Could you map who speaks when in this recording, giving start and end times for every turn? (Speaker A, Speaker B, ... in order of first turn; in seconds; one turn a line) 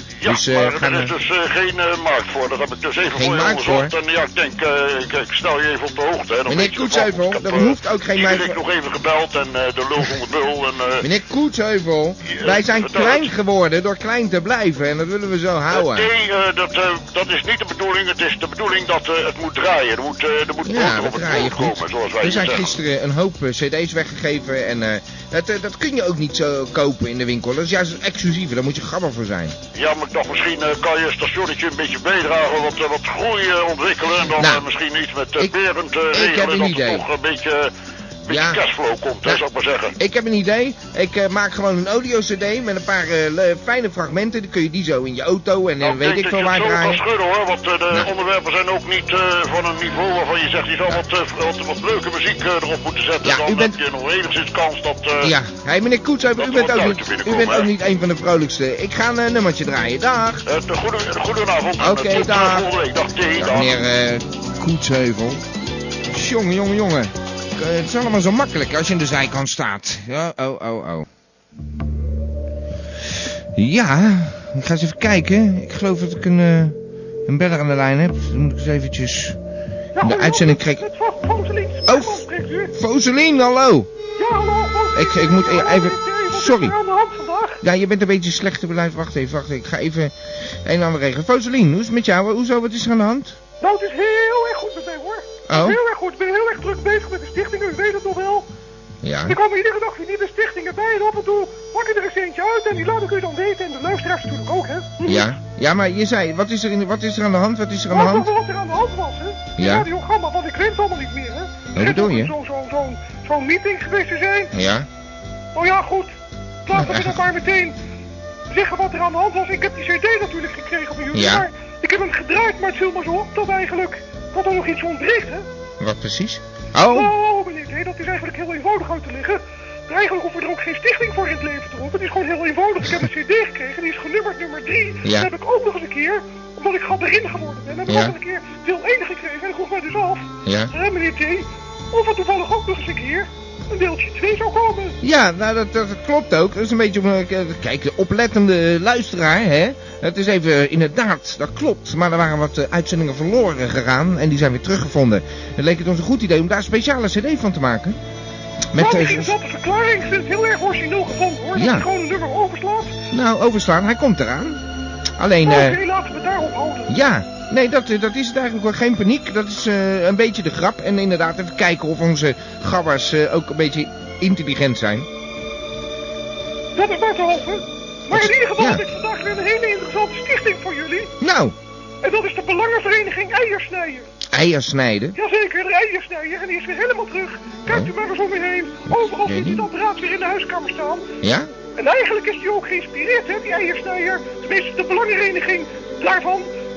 Speaker A: 0.2-11.0
Speaker B: 0.2-1.1
Speaker B: 3.1-3.9
Speaker B: 6.5-8.6
Speaker B: 11.0-16.1
Speaker A: 12.2-13.3
Speaker A: 15.7-22.7
Speaker B: 20.6-29.6
Speaker A: 29.7-37.7
Speaker B: 34.4-34.6
Speaker B: 36.1-37.0
Speaker A: 38.2-39.9
Speaker B: 38.3-38.6
Speaker B: 40.0-47.0
Speaker A: 45.8-55.3
Speaker B: 53.2-53.8
Speaker B: 55.2-60.4
Speaker A: 56.4-57.7
Speaker A: 60.5-63.7
Speaker B: 61.8-62.7
Speaker B: 63.4-65.4
Speaker B: 66.1-71.1
Speaker B: 73.5-79.4
Speaker C: 80.0-82.7
Speaker B: 80.0-80.8
Speaker B: 81.9-83.9
Speaker C: 84.2-87.6
Speaker B: 84.9-86.7
Speaker B: 87.6-93.4
Speaker C: 93.6-98.5
Speaker B: 95.5-95.8
Speaker B: 99.0-99.4
Speaker C: 99.3-105.3
Speaker B: 105.0-108.3
Speaker C: 107.9-114.5
Speaker B: 109.6-109.9
Speaker B: 111.7-112.3
Speaker B: 114.5-114.9
Speaker C: 115.5-116.1
Speaker C: 116.7-117.7
Speaker B: 116.7-117.2
Speaker C: 118.5-125.4
Speaker B: 121.1-121.4
Speaker B: 125.8-127.1
Speaker C: 126.9-144.9
Speaker B: 135.0-135.3
Speaker B: 140.4-140.7
Speaker B: 145.0-158.0
Speaker B: 158.7-159.3
Speaker C: 158.8-162.9
Speaker B: 161.6-161.9
Speaker B: 163.1-164.6
Speaker B: 165.2-165.8
Speaker C: 165.4-166.9
Speaker B: 166.9-175.1
Speaker C: 176.8-181.1
Speaker B: 178.1-178.8
Speaker B: 181.2-181.5
Speaker C: 182.0-184.1
Speaker B: 184.3-185.2
Speaker C: 185.2-191.0
Speaker B: 188.9-189.6
Speaker B: 191.2-191.5
Speaker C: 191.8-196.5